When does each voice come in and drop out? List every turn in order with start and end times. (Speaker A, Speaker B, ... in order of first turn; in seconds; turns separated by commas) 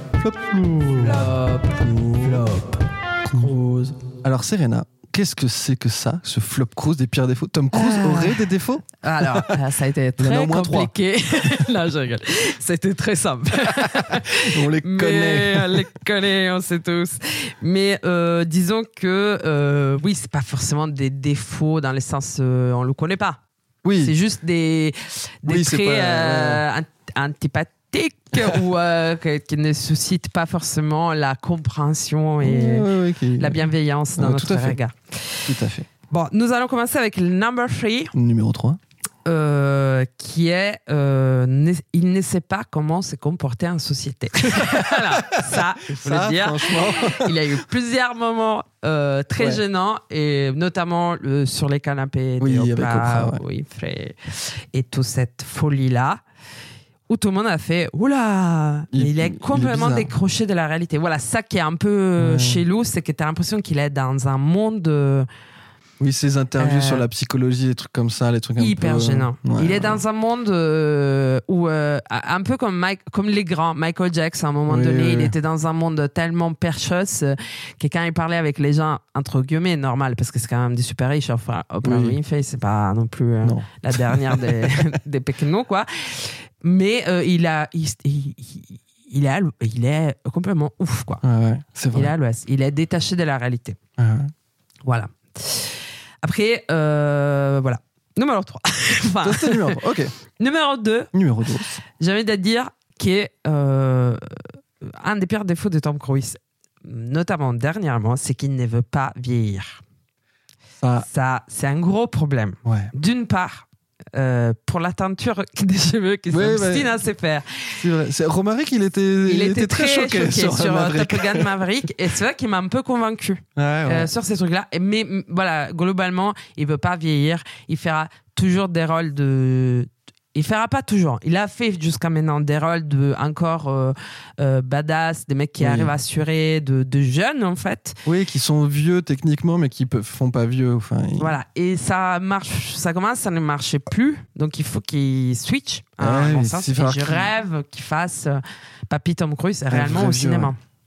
Speaker A: 0.2-2.5, Speaker B: 1.0-2.8, Speaker B: 3.3-4.0, Speaker A: 4.2-9.6, Speaker B: 7.7-8.5, Speaker B: 9.0-23.4, Speaker A: 10.2-10.9, Speaker A: 14.0-15.9, Speaker A: 23.8-24.1, Speaker B: 24.0-35.5, Speaker A: 25.5-26.6, Speaker A: 32.4-34.8, Speaker A: 35.5-35.9, Speaker B: 36.1-38.1, Speaker A: 38.1-38.8, Speaker B: 39.3-56.2, Speaker A: 44.6-45.4, Speaker A: 45.9-47.4, Speaker A: 52.4-53.4, Speaker B: 57.1-65.3, Speaker A: 58.9-60.1, Speaker A: 62.2-62.6, Speaker A: 66.0-70.0, Speaker B: 66.6-67.1, Speaker B: 68.6-91.2, Speaker A: 74.7-75.3, Speaker A: 81.8-82.2, Speaker A: 83.4-84.8, Speaker A: 91.2-92.1, Speaker B: 91.9-93.8, Speaker A: 94.0-94.3, Speaker B: 94.9-99.8, Speaker A: 99.2-100.2, Speaker B: 100.4-101.1, Speaker A: 101.1-101.8, Speaker B: 101.8-109.8, Speaker B: 111.0-117.8, Speaker A: 112.7-112.9, Speaker A: 116.3-117.0, Speaker A: 117.8-121.5, Speaker B: 119.2-138.0, Speaker A: 123.6-124.1, Speaker A: 135.6-135.9, Speaker A: 138.1-141.4, Speaker B: 141.2-150.6, Speaker A: 146.0-147.3, Speaker A: 149.7-150.5